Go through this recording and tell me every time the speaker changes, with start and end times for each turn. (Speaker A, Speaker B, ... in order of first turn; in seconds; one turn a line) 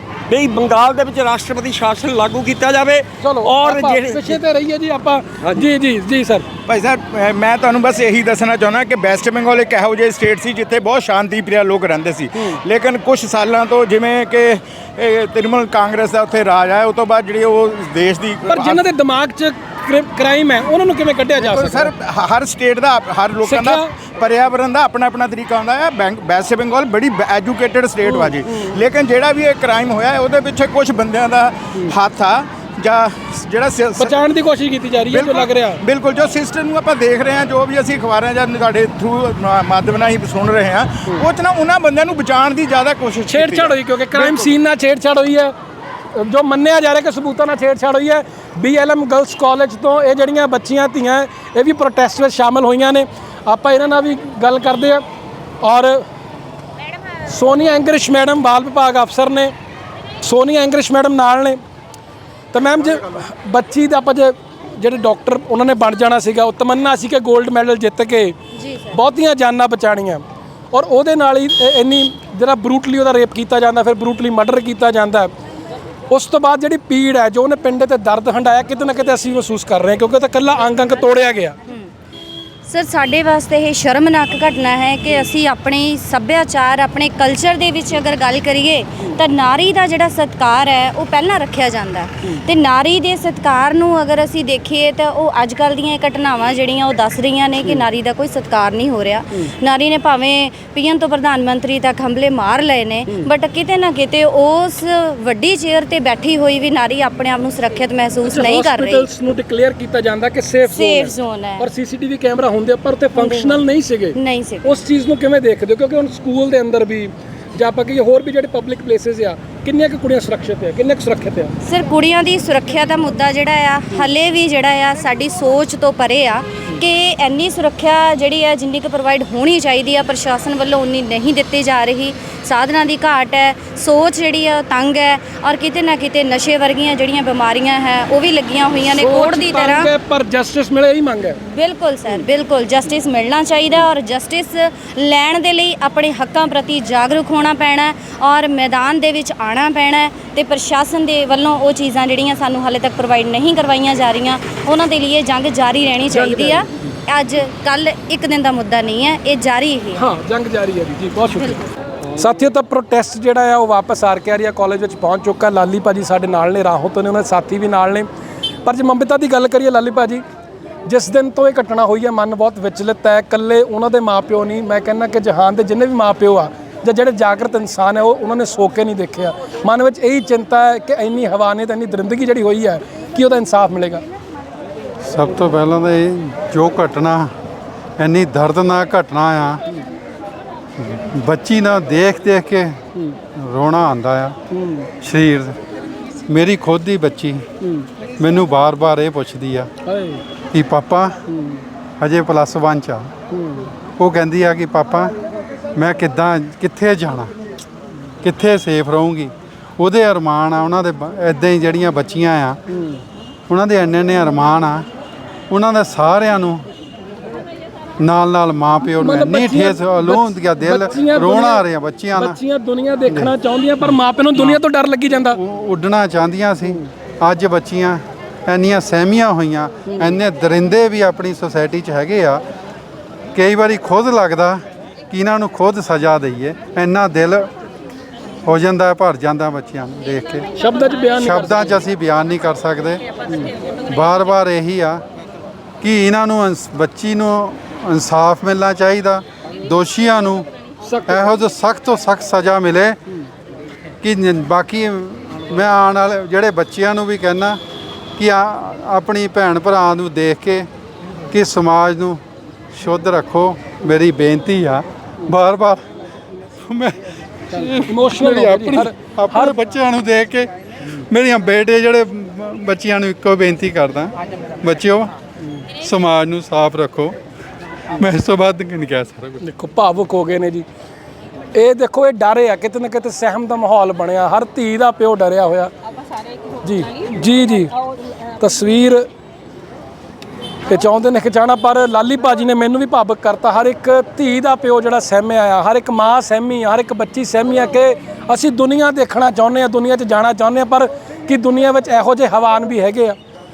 Speaker A: 0.3-4.4
Speaker B: 3.2-6.5
Speaker C: 6.7-18.8
Speaker B: 18.5-21.9
Speaker C: 21.4-34.2
Speaker B: 23.4-23.9
Speaker B: 34.0-35.8
Speaker C: 35.1-44.5
Speaker B: 43.3-45.5
Speaker B: 46.1-55.0
Speaker B: 55.6-56.0
Speaker B: 57.3-59.5
Speaker B: 60.2-61.6
Speaker B: 62.5-68.3
Speaker D: 68.6-68.9
Speaker B: 68.9-75.3
Speaker B: 76.1-81.6
Speaker D: 82.7-109.1
Speaker B: 108.2-121.5
Speaker D: 110.7-111.7
Speaker D: 113.2-113.6
Speaker D: 114.1-114.7
Speaker D: 121.6-139.9
Speaker B: 138.9-141.4
Speaker D: 141.4-160.0
Speaker B: 156.1-156.9
Speaker B: 159.9-161.6
Speaker B: 162.2-168.1
Speaker B: 168.7-170.2
Speaker B: 170.9-184.0
Speaker E: 185.0-187.3
Speaker E: 188.0-189.6
Speaker E: 190.8-192.8
Speaker E: 193.4-194.4
Speaker B: 194.6-194.8
Speaker E: 195.0-195.6
Speaker E: 196.3-197.4
Speaker E: 198.2-199.7
Speaker B: 199.9-200.2
Speaker E: 200.5-201.2
Speaker E: 202.0-203.1
Speaker B: 203.3-203.7
Speaker E: 204.0-205.2
Speaker E: 205.8-207.3
Speaker E: 208.2-212.6
Speaker E: 213.5-214.9
Speaker E: 215.5-216.7
Speaker E: 218.0-222.4
Speaker B: 219.0-221.6
Speaker B: 222.2-225.4
Speaker E: 223.1-223.3
Speaker E: 223.9-224.6
Speaker E: 225.4-232.4
Speaker E: 233.3-237.5
Speaker E: 238.5-240.5
Speaker B: 240.6-241.8
Speaker E: 241.2-243.0
Speaker E: 243.9-245.0
Speaker E: 245.8-250.5
Speaker B: 250.9-251.3
Speaker E: 251.1-253.0
Speaker E: 254.0-257.6
Speaker E: 258.2-260.7
Speaker E: 261.3-262.2
Speaker E: 262.7-265.8
Speaker E: 266.6-267.0
Speaker E: 267.5-275.1
Speaker B: 267.9-269.6
Speaker E: 275.8-277.2
Speaker E: 278.0-279.4
Speaker B: 279.4-280.7
Speaker B: 281.5-285.7
Speaker B: 286.6-287.8
Speaker B: 288.3-289.1
Speaker B: 290.7-303.2